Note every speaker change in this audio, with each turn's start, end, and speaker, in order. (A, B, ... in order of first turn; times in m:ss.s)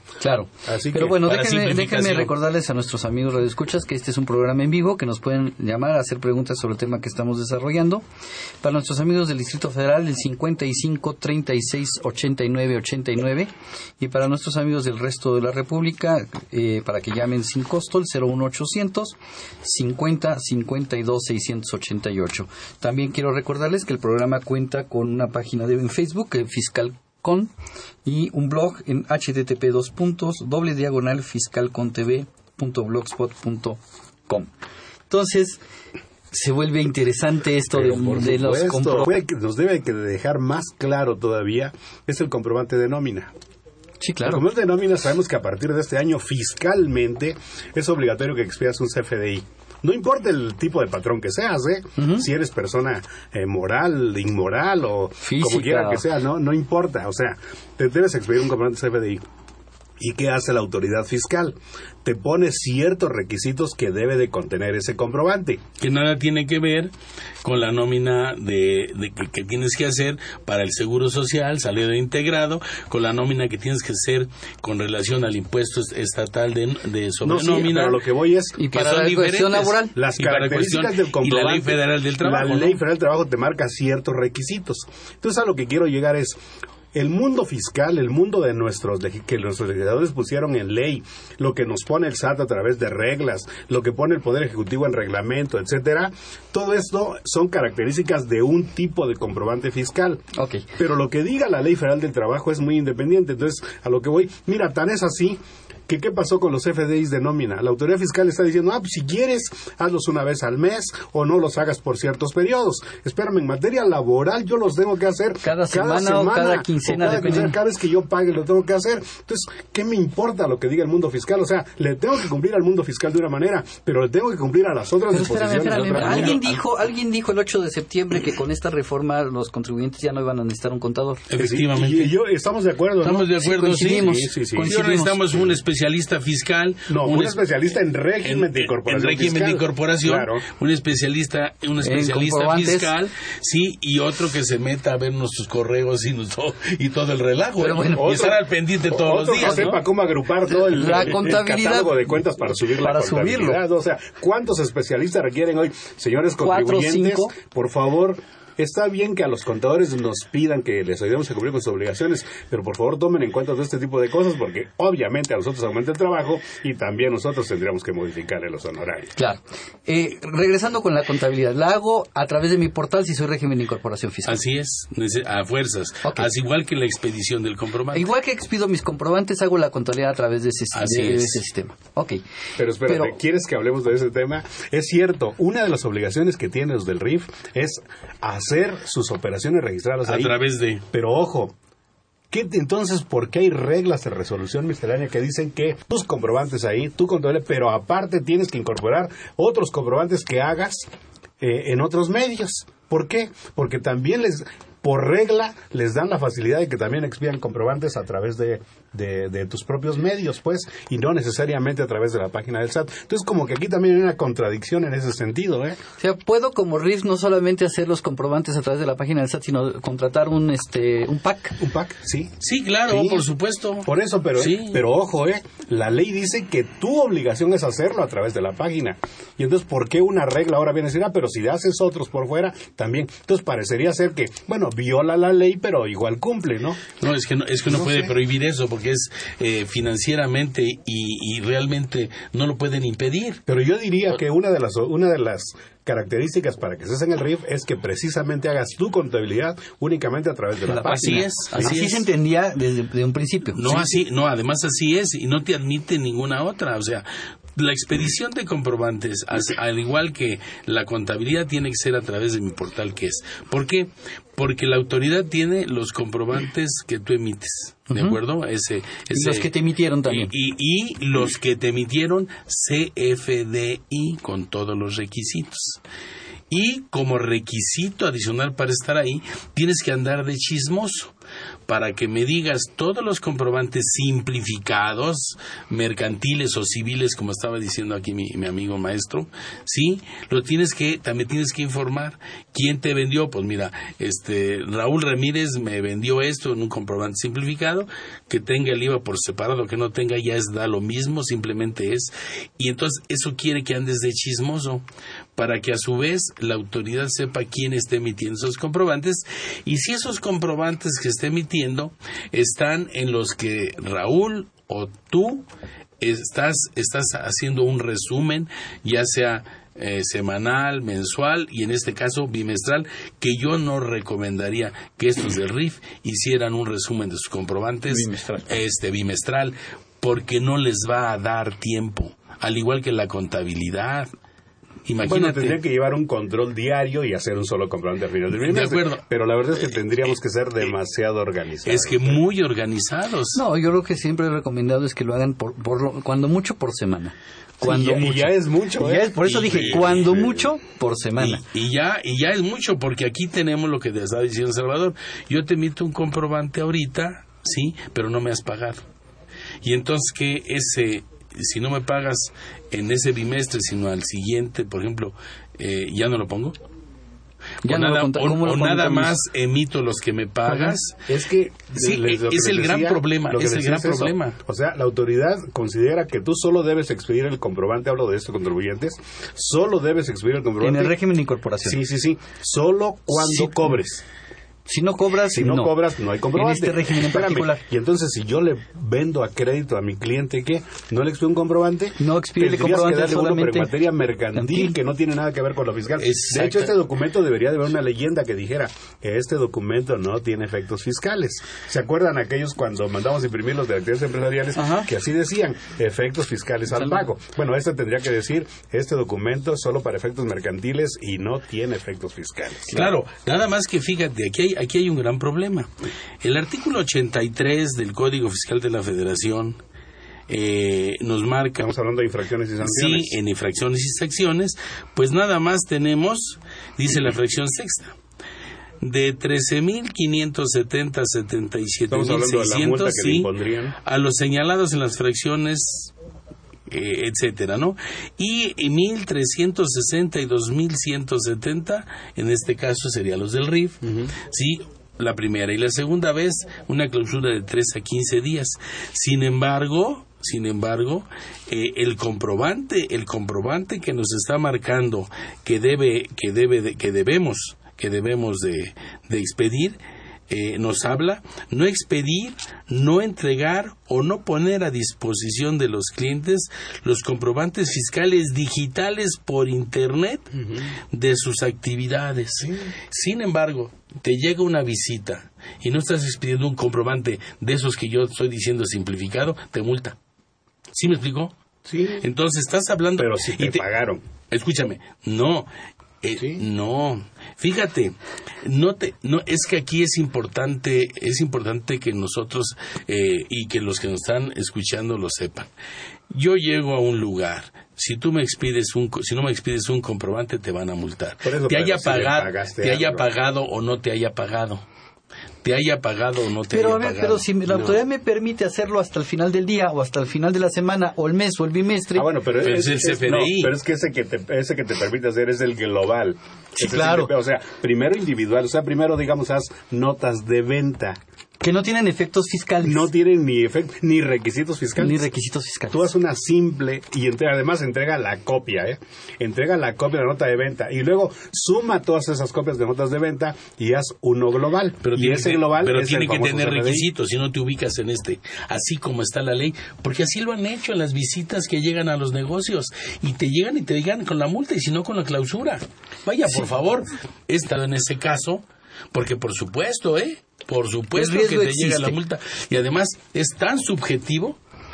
0:00.2-0:08.0 A
0:00.6-0:01.2 B
0:01.2-0:02.3 C
0:08.6-0:27.5 A
0:28.0-0:34.5 A
0:35.1-0:35.6 A
0:36.3-0:39.1 A
0:37.7-0:43.3 B
0:44.0-0:44.4 A
0:44.2-0:59.2 B
0:52.0-0:52.2 A
0:55.2-0:56.0 A
1:00.0-1:05.6 B
1:05.8-1:06.9 C
1:07.4-1:18.0 C
1:17.2-1:18.6 B
1:18.6-1:19.9 A
1:18.7-1:22.8 C
1:19.9-1:26.4 B
1:26.9-1:40.2 B
1:40.3-1:40.7 A
1:40.8-2:06.4 B
1:55.4-1:57.6 A
2:05.1-2:11.2 A
2:05.7-2:06.5 C
2:11.3-2:12.2 C
2:11.4-2:14.7 B
2:13.0-2:17.4 C
2:13.0-2:15.2 A
2:16.9-2:20.4 B
2:18.2-2:29.8 C
2:21.8-2:22.9 A
2:27.6-2:28.2 A
2:27.9-2:49.1 B
2:29.4-2:29.7 A
2:30.5-2:33.6 A
2:36.4-2:37.3 A
2:49.2-2:54.4 A
2:54.2-2:58.1 C
2:57.9-3:02.2 A
3:00.7-3:01.4 C
3:02.6-3:10.4 B
3:02.8-3:03.2 A
3:10.0-3:10.8 C
3:10.9-3:11.5 B
3:12.3-3:20.8 B
3:21.4-3:35.8 B
3:36.0-3:41.6 A
3:41.6-3:42.3 B
3:42.4-3:44.8 C
3:42.9-3:43.2 B
3:43.8-3:56.8 B
3:57.0-4:03.4 C
3:57.6-3:58.1 B
4:03.5-4:11.8 B
4:10.6-4:13.9 A
4:10.8-4:12.0 C
4:13.6-4:29.5 C
4:27.9-4:28.2 A
4:29.1-4:30.3 A
4:30.1-4:35.8 C
4:36.5-4:41.1 C
4:41.7-5:04.8 C
5:05.4-5:15.5 C
5:16.0-5:34.1 C
5:27.9-5:28.3 A
5:34.8-5:35.6 C
5:35.0-5:42.2 B
5:38.4-5:40.1 C
5:41.6-5:43.4 C
5:43.3-5:51.4 A
5:47.6-5:50.3 B
5:49.2-5:50.2 C
5:51.2-5:58.8 C
5:59.6-6:06.6 C
6:07.6-6:09.1 A
6:07.6-6:11.0 C
6:11.0-6:21.0 B
6:11.8-6:14.4 C
6:20.6-6:21.8 A
6:21.6-6:24.0 B
6:23.1-6:23.6 A
6:24.7-6:25.8 A
6:25.3-6:52.8 B
6:26.3-6:27.6 A
6:32.0-6:33.7 A
6:34.3-6:34.7 A
6:36.0-6:36.7 C
6:44.6-6:44.9 A
6:46.7-6:47.0 A
6:52.7-6:55.7 C
6:56.2-6:59.6 C
7:00.3-7:01.7 C
7:01.6-7:03.1 B
7:02.6-7:08.0 C
7:08.8-7:13.3 C
7:11.9-7:13.7 B
7:13.8-7:15.9 C
7:16.7-7:39.8 C
7:23.8-7:24.1 B
7:40.3-7:50.3 C
7:50.4-7:50.7 B
7:50.9-8:00.0 C
7:52.4-7:52.7 B
8:00.7-8:01.3 C
8:01.7-8:02.0 B
8:02.0-8:03.6 C
8:03.0-8:04.0 B
8:04.3-8:05.5 C
8:06.0-8:15.5 C
8:06.2-8:06.4 B
8:16.1-8:24.6 C
8:21.2-8:23.0 B
8:25.4-8:27.8 C
8:26.5-8:32.1 A
8:31.9-8:41.0 B
8:32.4-8:33.5 C
8:36.5-8:37.1 A
8:41.4-8:42.9 A
8:42.6-8:45.0 B
8:44.8-8:45.9 A
8:45.7-8:56.8 B
8:54.8-9:14.4 C
9:10.9-9:12.0 A